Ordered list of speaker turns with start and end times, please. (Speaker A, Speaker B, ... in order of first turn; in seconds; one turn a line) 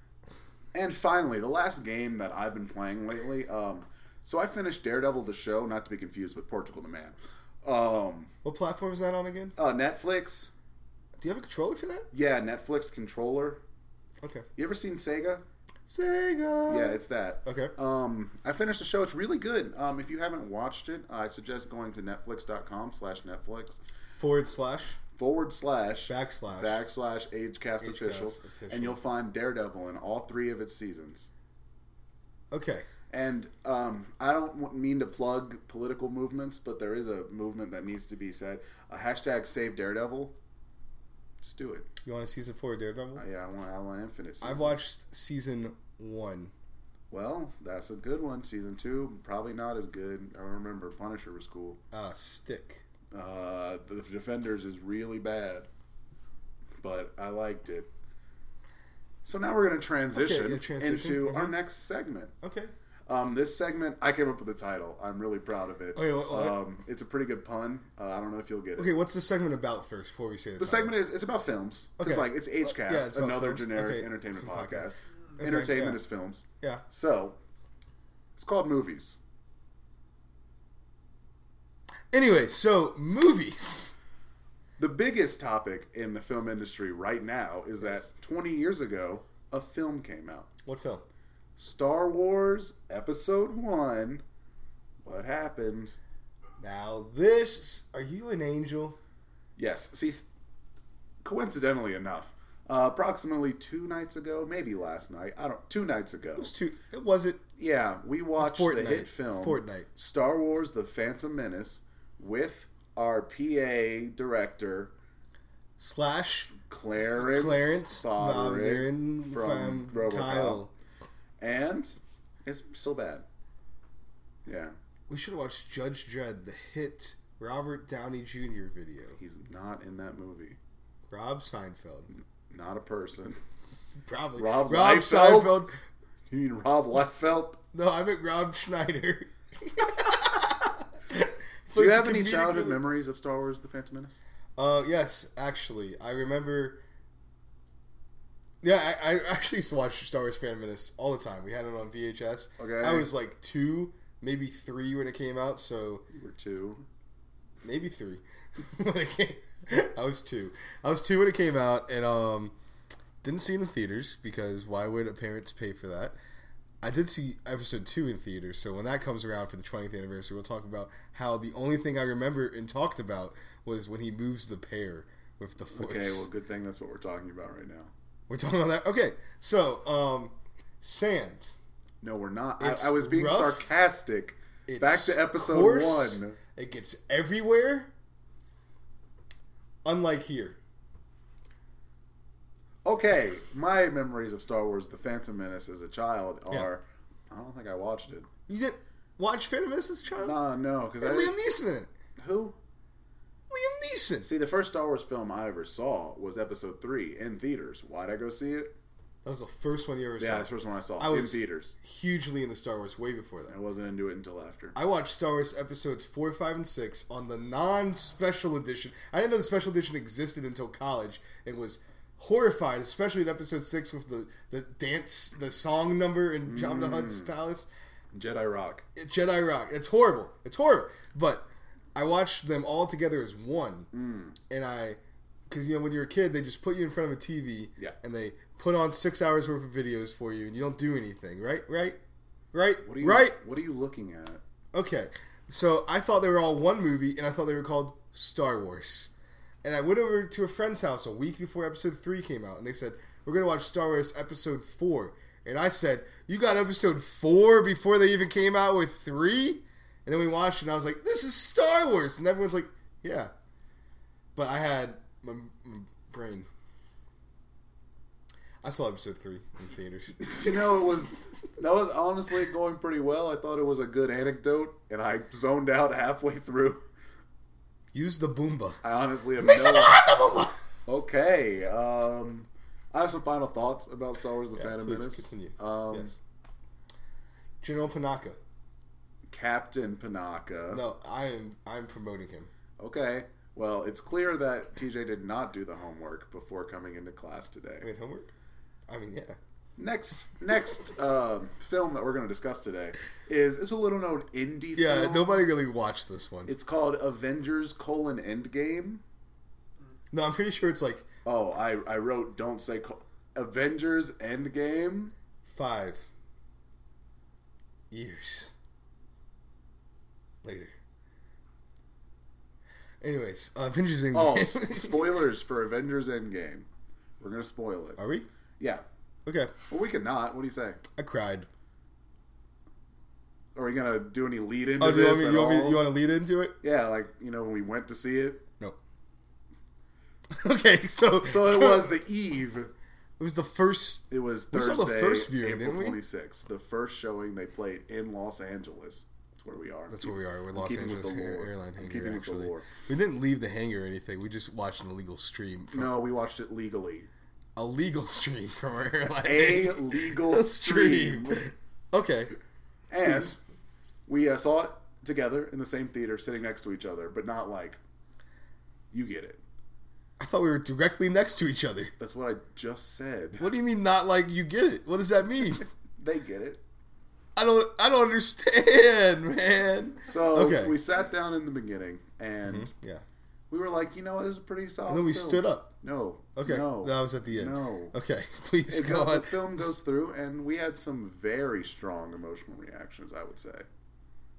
Speaker A: 0.7-8.3
Speaker B: 8.4-9.5
Speaker A: 9.6-10.5
Speaker B: 11.2-12.1
Speaker A: 12.1-13.6
Speaker B: 14.2-14.4
Speaker A: 14.6-15.4
Speaker B: 15.9-17.7
Speaker A: 16.7-23.8
Speaker B: 24.2-25.0
Speaker A: 25.2-31.3
Speaker B: 26.1-26.8
Speaker B: 27.8-29.0
Speaker B: 32.5-32.9
Speaker A: 33.1-40.4
Speaker A: 41.4-41.9
Speaker B: 42.0-43.2
Speaker A: 43.1-44.8
Speaker B: 44.4-46.5
Speaker A: 47.1-51.8
Speaker B: 51.9-52.8
Speaker A: 53.1-55.7
Speaker A: 56.8-57.9
Speaker A: 59.2-62.3
Speaker B: 60.1-61.5
Speaker B: 62.4-62.7
Speaker A: 63.1-69.0
Speaker B: 66.0-66.6
Speaker B: 68.8-71.0
Speaker A: 70.6-77.4
Speaker B: 72.0-76.0
Speaker A: 78.3-79.2
Speaker B: 82.1-84.0
Speaker A: 84.8-90.5
Speaker B: 90.6-91.0
Speaker A: 91.6-94.2
Speaker A: 95.0-96.0
Speaker B: 96.6-99.0
Speaker A: 99.6-100.3
Speaker A: 101.2-106.5
Speaker B: 106.4-107.4
Speaker A: 107.6-114.9
Speaker B: 108.4-109.9
Speaker B: 115.8-116.5
Speaker A: 116.5-120.6
Speaker B: 117.1-120.7
Speaker A: 121.4-123.2
Speaker A: 124.5-124.7
Speaker B: 125.1-129.2
Speaker A: 129.2-130.6
Speaker B: 131.1-132.1
Speaker A: 132.5-133.4
Speaker B: 134.0-135.7
Speaker A: 134.4-135.7
Speaker A: 136.3-137.6
Speaker B: 137.7-142.8
Speaker A: 141.7-144.2
Speaker B: 144.6-146.8
Speaker B: 148.6-156.0
Speaker A: 152.6-153.1
Speaker A: 156.1-156.8
Speaker B: 157.6-162.5
Speaker B: 163.2-166.2
Speaker B: 166.8-176.3
Speaker A: 175.7-177.9
Speaker B: 178.3-181.5
Speaker A: 182.0-186.4
Speaker B: 182.6-183.7
Speaker B: 184.7-187.9
Speaker B: 189.8-190.6
Speaker A: 192.8-198.3
Speaker B: 198.5-200.3
Speaker A: 200.2-201.3
Speaker B: 201.0-201.9
Speaker A: 202.2-202.6
Speaker B: 203.5-204.3
Speaker A: 204.2-208.8
Speaker B: 209.2-213.6
Speaker A: 210.2-211.7
Speaker A: 213.5-214.8
Speaker B: 214.7-227.7
Speaker A: 226.4-227.3
Speaker A: 228.1-228.8
Speaker B: 228.9-233.9
Speaker A: 233.9-234.3
Speaker B: 234.5-242.0
Speaker B: 242.5-243.4
Speaker A: 242.8-244.4
Speaker B: 244.7-249.1
Speaker B: 249.6-263.3
Speaker B: 264.4-266.5
Speaker B: 268.6-270.6
Speaker A: 270.2-276.8
Speaker B: 277.9-278.8
Speaker A: 278.8-280.0
Speaker B: 279.4-280.6
Speaker A: 280.9-286.1
Speaker B: 284.5-286.2
Speaker B: 287.6-288.4
Speaker A: 289.3-290.8
Speaker B: 290.7-292.5
Speaker A: 292.8-297.9
Speaker B: 297.8-298.3
Speaker B: 298.9-299.4
Speaker A: 299.8-305.4
Speaker B: 304.7-306.5
Speaker A: 306.4-309.0
Speaker B: 310.1-311.1
Speaker A: 311.2-315.1
Speaker B: 315.4-316.0
Speaker B: 317.9-318.5
Speaker B: 320.4-320.7
Speaker B: 323.0-325.1
Speaker A: 324.1-326.7
Speaker A: 327.2-328.0
Speaker B: 328.0-328.3
Speaker A: 328.6-328.8
Speaker B: 329.2-329.5
Speaker A: 329.7-330.8
Speaker B: 330.9-331.5
Speaker A: 333.5-335.9
Speaker B: 334.8-336.6
Speaker A: 336.6-338.4
Speaker B: 340.3-342.0
Speaker A: 341.2-342.7
Speaker B: 343.2-346.0
Speaker A: 344.1-352.7
Speaker B: 349.9-356.0
Speaker A: 355.7-357.1
Speaker B: 357.6-362.3
Speaker A: 359.2-361.5
Speaker A: 362.9-363.4
Speaker B: 363.0-363.4
Speaker A: 364.1-367.8
Speaker A: 368.9-369.4
Speaker B: 370.2-371.9
Speaker A: 372.0-373.5
Speaker B: 373.4-375.6
Speaker A: 376.0-376.6
Speaker B: 377.4-380.8
Speaker A: 380.1-382.7
Speaker B: 382.4-383.0
Speaker A: 383.5-387.9
Speaker B: 384.9-385.7
Speaker B: 386.4-389.7
Speaker A: 388.7-393.7